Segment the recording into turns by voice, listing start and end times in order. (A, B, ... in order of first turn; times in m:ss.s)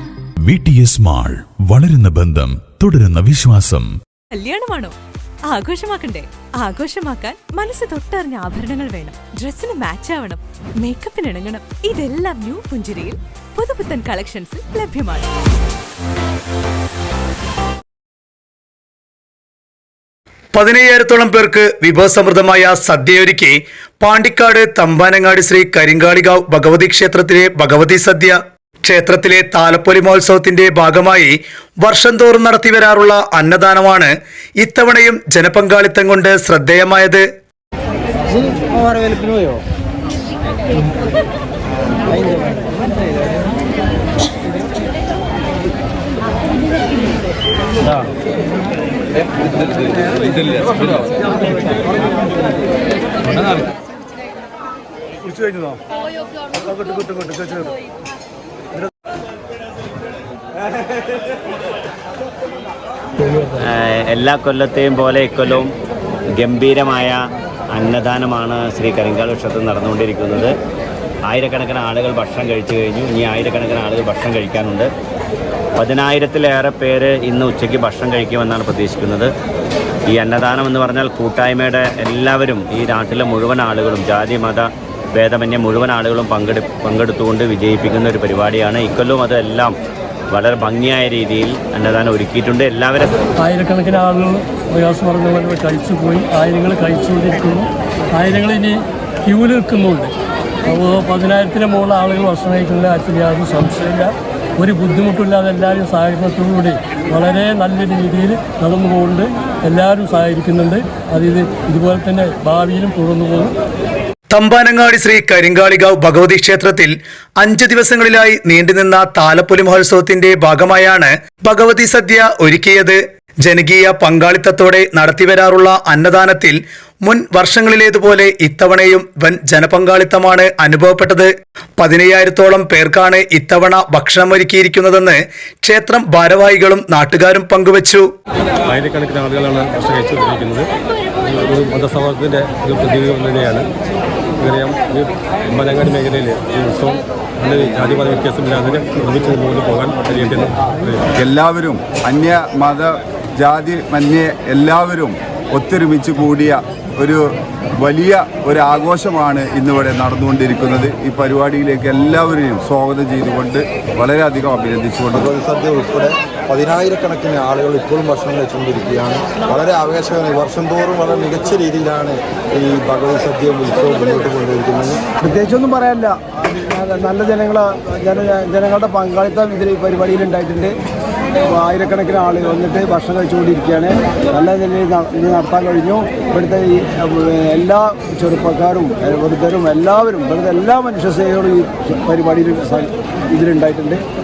0:00.5-0:03.9 A
0:04.3-0:05.0 B
0:05.5-0:15.3 B
0:20.5-0:37.2 C
0:57.0-0:57.3 D
1:03.6-1:05.7 E
1:06.4-1:10.5 E
1:11.3-1:14.9 E
1:15.8-1:19.3 E
1:20.1-1:29.7 E
1:30.3-1:33.1 E
1:33.4-1:40.1 F
1:40.6-1:53.5 F
1:54.3-2:18.0 C
2:18.7-2:20.7 G
2:21.2-2:23.6 G
2:24.4-2:31.0 G
2:31.2-2:37.2 H
2:37.8-2:45.3 H
2:45.1-2:55.0 I
2:55.2-3:00.7 D
3:01.5-3:14.0 D